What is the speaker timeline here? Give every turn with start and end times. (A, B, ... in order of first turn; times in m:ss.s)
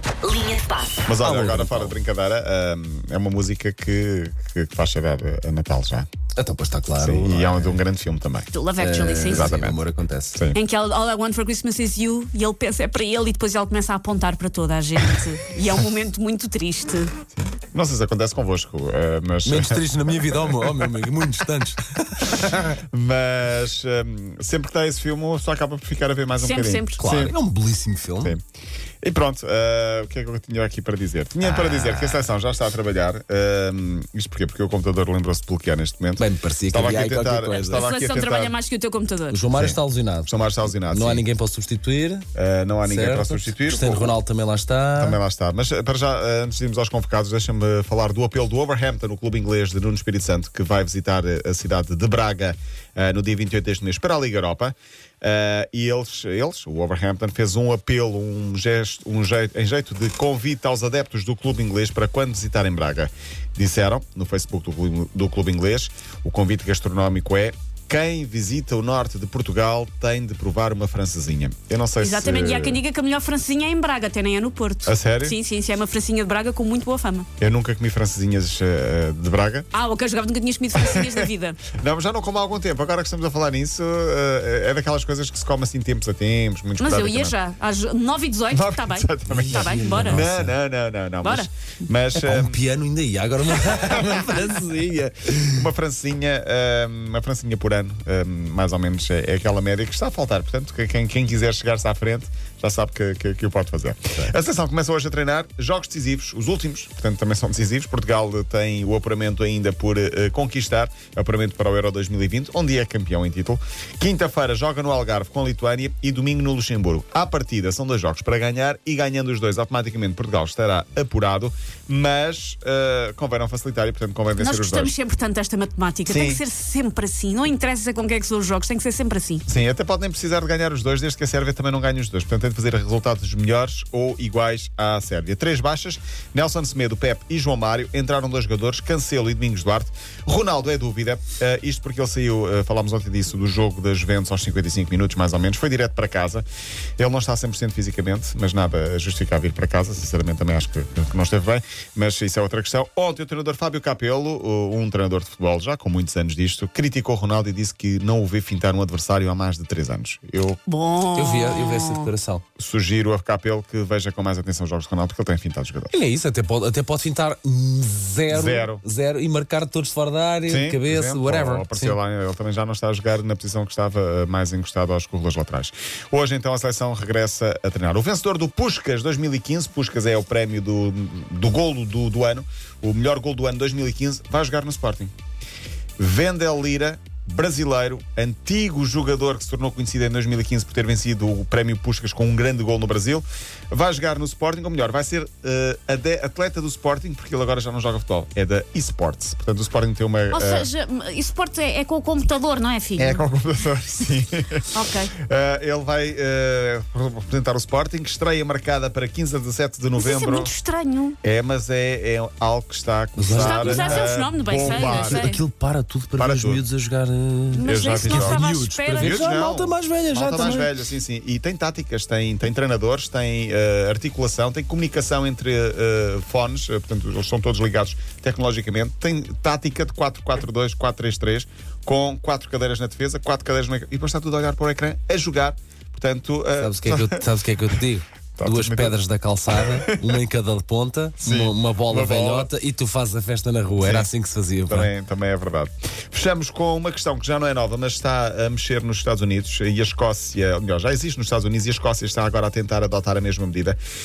0:01.0-0:06.1 A
0:01.2-0:02.0 B
0:06.4-0:07.8 B
0:07.0-0:08.5 A
0:08.5-0:09.5 C
0:08.8-0:10.4 B
0:09.2-0:09.8 A
0:10.5-0:17.1 C
0:17.4-0:20.9 A
0:19.4-0:22.8 B
0:22.4-0:27.4 A
0:26.4-0:27.0 C
0:27.0-0:28.4 B
0:29.0-0:38.6 A
0:31.5-0:32.2 B
0:36.2-0:37.8 B
0:37.5-0:39.4 C
0:39.3-0:40.3 B
0:39.6-0:41.2 A
0:40.9-0:42.3 B
0:42.4-0:44.2 A
0:42.8-0:45.2 B
0:45.0-1:12.8 A
1:12.0-1:17.3 C
1:14.8-1:15.3 A
1:17.4-1:19.7 A
1:19.7-1:21.6 C
1:20.7-1:27.4 A
1:26.8-1:30.2 C
1:28.5-1:32.6 A
1:29.3-1:30.5 B
1:31.2-1:31.5 C
1:32.1-1:35.6 B
1:33.6-2:04.9 A
2:04.4-2:09.4 C
2:06.1-2:06.4 A
2:09.5-2:26.4 A
2:27.0-2:40.6 A
2:40.7-2:42.1 C
2:41.1-2:42.4 B
2:42.6-2:45.9 A
2:45.9-2:52.0 B
2:48.3-2:48.8 A
2:50.4-3:05.1 A
3:06.0-3:20.7 A
3:20.3-3:23.3 C
3:23.0-3:30.5 A
3:24.7-3:25.1 C
3:30.0-3:31.2 C
3:31.2-3:35.3 A
3:33.2-3:40.7 B
3:33.3-3:35.4 C
3:36.2-3:36.7 A
3:37.5-3:39.3 C
3:37.6-3:57.2 A
3:56.6-4:04.9 B
3:58.4-3:59.0 A
3:59.5-4:00.0 A
4:01.2-4:02.5 A
4:03.8-4:04.1 A
4:04.7-4:13.8 A